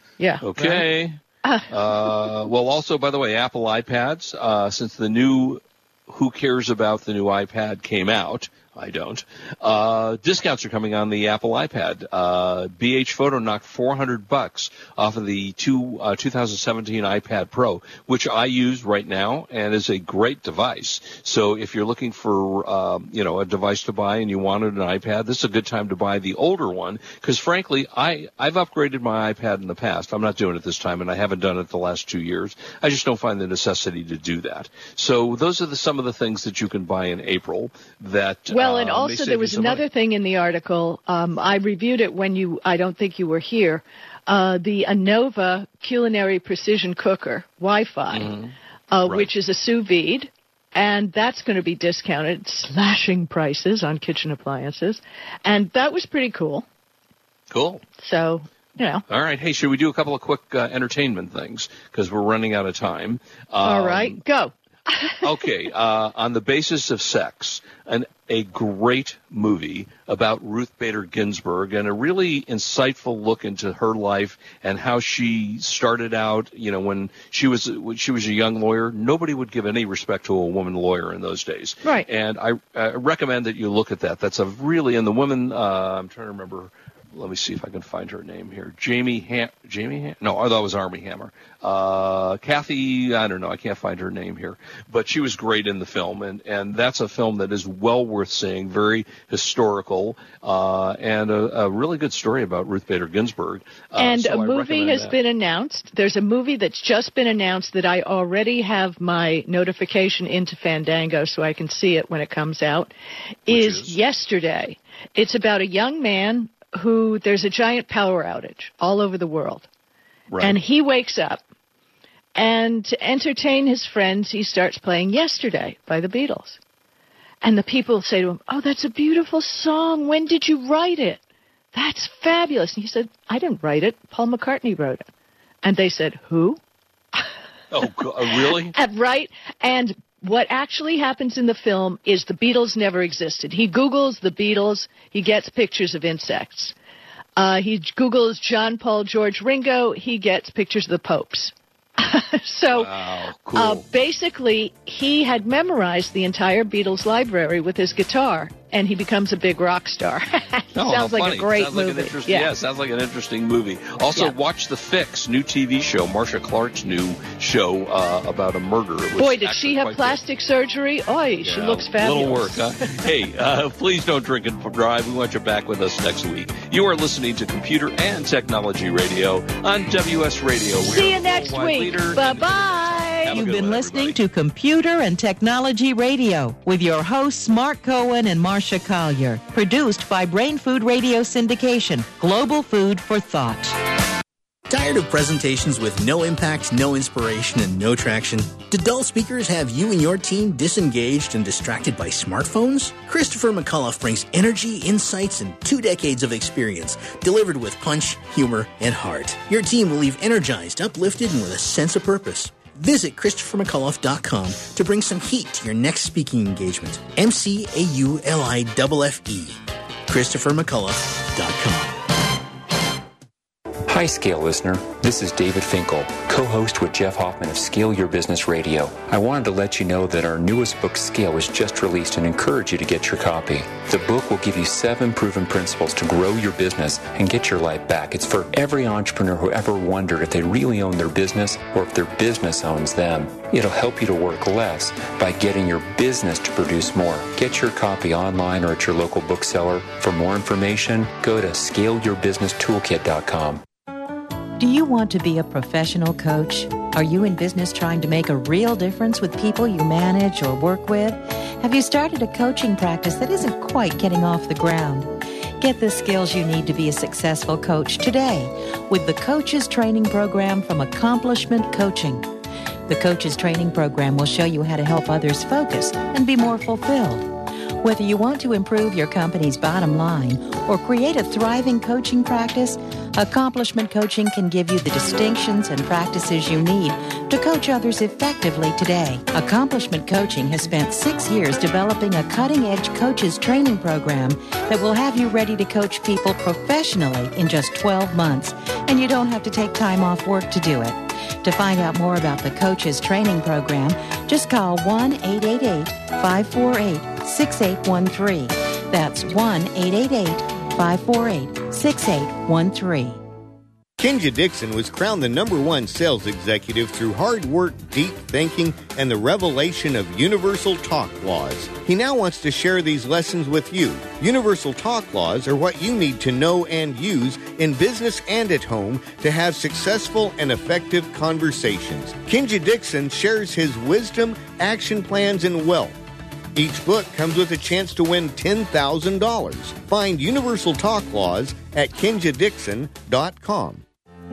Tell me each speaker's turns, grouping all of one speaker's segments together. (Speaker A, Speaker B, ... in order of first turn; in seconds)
Speaker A: 0.2-0.9, 1.4-2.3, 38.5-48.4, 48.9-56.6, 58.0-59.0, 63.6-65.2, 104.0-112.9, 113.5-119.7, 120.4-121.4, 122.3-126.6, 127.4-131.2, 131.7-135.1, 135.6-136.6, 138.3-146.7, 147.4-152.9, 153.5-162.5, 169.2-172.9, 180.8-183.3
Speaker B: 0.4-39.9, 48.1-48.5, 57.5-57.8, 59.1-64.2, 65.2-105.2, 113.5-114.0, 120.3-120.6, 137.7-138.7, 152.7-153.8, 160.7-170.2, 171.4-184.2
Speaker C: 183.3-193.8, 254.6-272.3, 272.9-313.2
Speaker D: 194.7-222.0
Speaker E: 223.9-253.6
Speaker F: 314.0-335.9, 336.6-343.8